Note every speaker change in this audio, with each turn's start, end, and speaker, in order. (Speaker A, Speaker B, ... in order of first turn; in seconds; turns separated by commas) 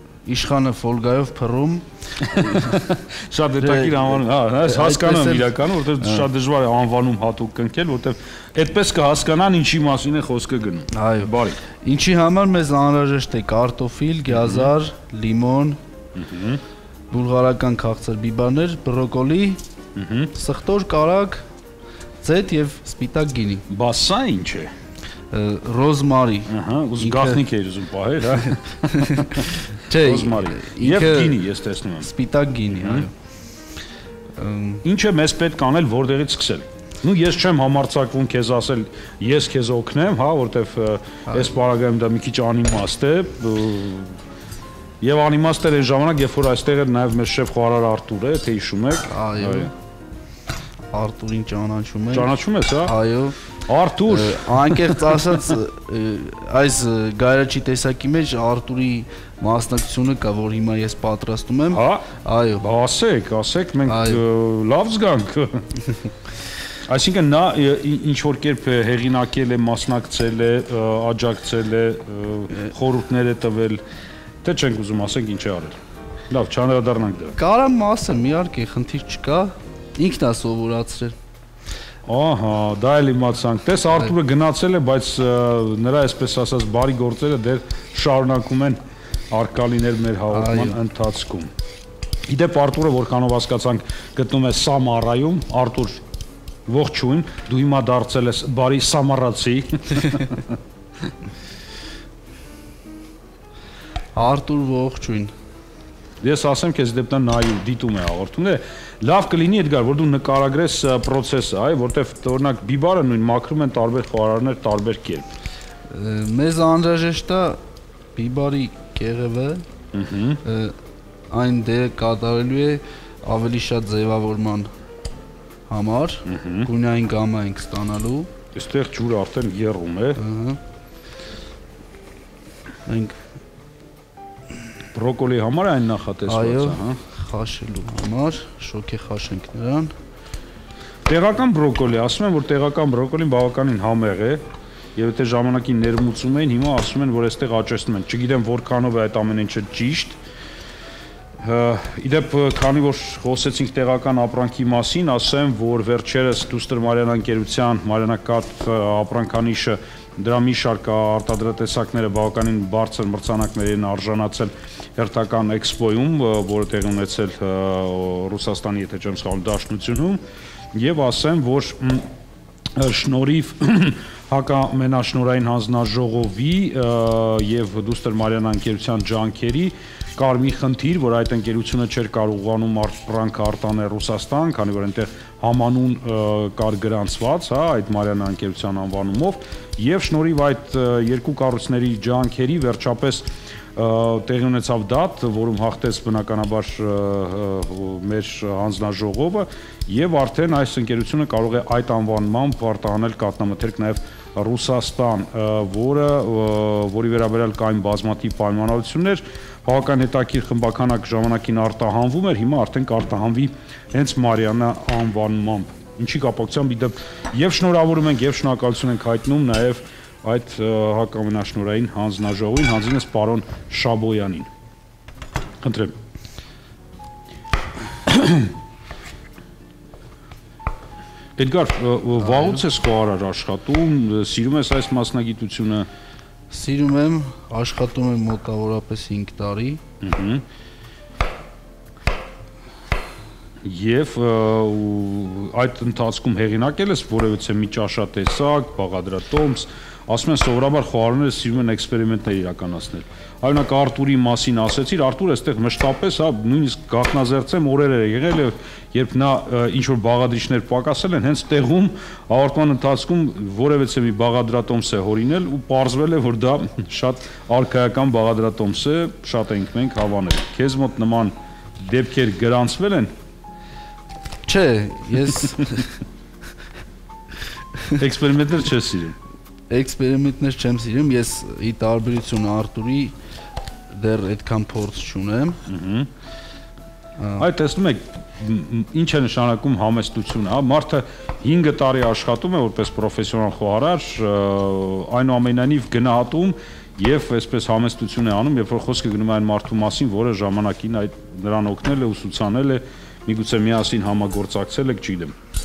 Speaker A: 0.2-2.8, Speaker B: 2.3-11.6, Speaker A: 3.6-6.3, Speaker A: 10.9-15.8, Speaker B: 14.3-14.7, Speaker B: 16.1-16.6, Speaker A: 17.1-19.6, Speaker B: 19.9-20.3, Speaker A: 20.3-21.4, Speaker A: 22.2-23.6, Speaker B: 23.7-24.7, Speaker A: 25.3-27.4, Speaker B: 26.5-32.1, Speaker A: 28.3-31.4, Speaker A: 32.0-33.1, Speaker B: 32.7-33.0, Speaker A: 34.3-34.8, Speaker B: 34.8-44.2, Speaker A: 41.3-41.6, Speaker B: 45.0-49.7, Speaker A: 49.1-49.7, Speaker A: 50.9-53.4, Speaker B: 52.1-52.9, Speaker B: 53.6-55.5, Speaker A: 54.1-62.6, Speaker B: 61.7-62.0, Speaker B: 62.6-65.7, Speaker A: 63.9-64.2, Speaker B: 66.9-73.8, Speaker B: 74.4-75.8, Speaker B: 76.3-77.4, Speaker A: 77.4-81.2, Speaker B: 82.1-88.8, Speaker B: 89.3-91.5, Speaker A: 90.3-90.8, Speaker B: 92.3-96.0, Speaker B: 96.7-100.5, Speaker A: 104.1-105.3, Speaker B: 106.2-115.3, Speaker A: 115.9-117.6, Speaker A: 118.1-119.7, Speaker B: 119.9-120.4, Speaker A: 120.4-120.8, Speaker A: 121.3-124.7, Speaker A: 125.7-128.3, Speaker B: 126.3-126.7, Speaker B: 128.5-130.2, Speaker A: 130.2-130.6, Speaker A: 132.8-133.2, Speaker B: 134.9-137.0, Speaker A: 136.3-139.9, Speaker B: 141.1-144.4, Speaker B: 144.9-150.2, Speaker B: 151.4-170.2, Speaker B: 170.7-172.1, Speaker B: 172.7-224.5, Speaker B: 225.6-225.9, Speaker B: 228.1-228.5, Speaker B: 231.4-235.9, Speaker A: 232.3-232.6, Speaker A: 236.5-239.8, Speaker B: 240.0-240.4, Speaker B: 243.6-273.1, Speaker A: 274.4-275.9, Speaker B: 277.9-279.1, Speaker A: 279.7-283.1, Speaker A: 283.9-285.6, Speaker B: 285.7-286.1, Speaker A: 287.2-287.4, Speaker B: 287.4-305.3